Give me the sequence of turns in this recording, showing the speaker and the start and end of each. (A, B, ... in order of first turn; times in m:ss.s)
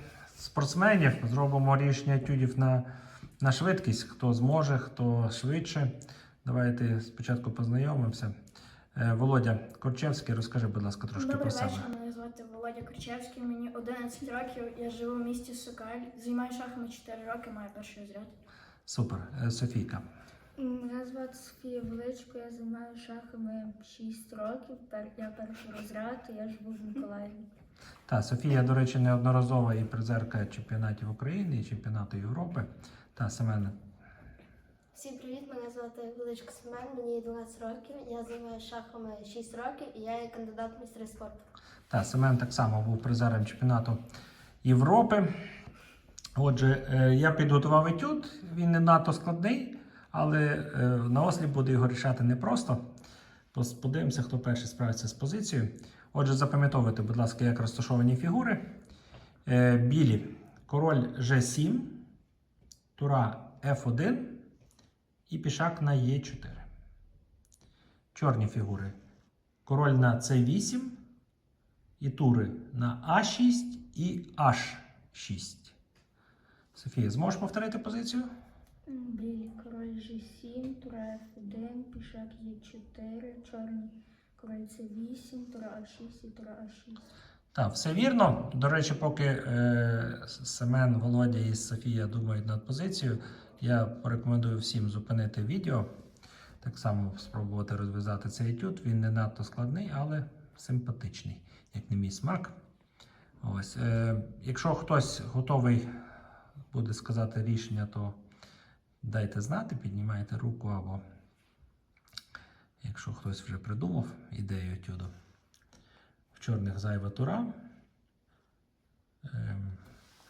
0:00.4-0:02.9 A
0:03.4-0:05.9 A
0:06.4-0:08.4 A
0:09.0-0:11.9 A
0:11.2-0:18.3 B
0:18.8-0:20.0 A
0:20.6-0:27.4 C
0:28.1-0:33.8 A
0:34.9-0:41.4 D
0:41.9-0:44.0 A
0:44.6-0:45.3 A
0:46.4-0:52.8 A
0:53.5-0:58.6 A
0:59.5-1:02.0 A
1:03.0-1:04.5 A
1:05.3-1:06.6 A
1:08.1-1:08.9 A
1:09.7-1:11.0 A
1:12.0-1:15.7 A
1:16.7-1:18.3 A
1:18.9-1:27.1 C
1:27.5-1:35.9 A
1:36.6-1:42.5 A
1:43.4-1:45.9 A
1:46.7-1:48.2 A
1:49.0-1:51.0 A
1:52.8-1:55.1 A
1:56.3-1:57.5 A
1:59.2-1:59.8 A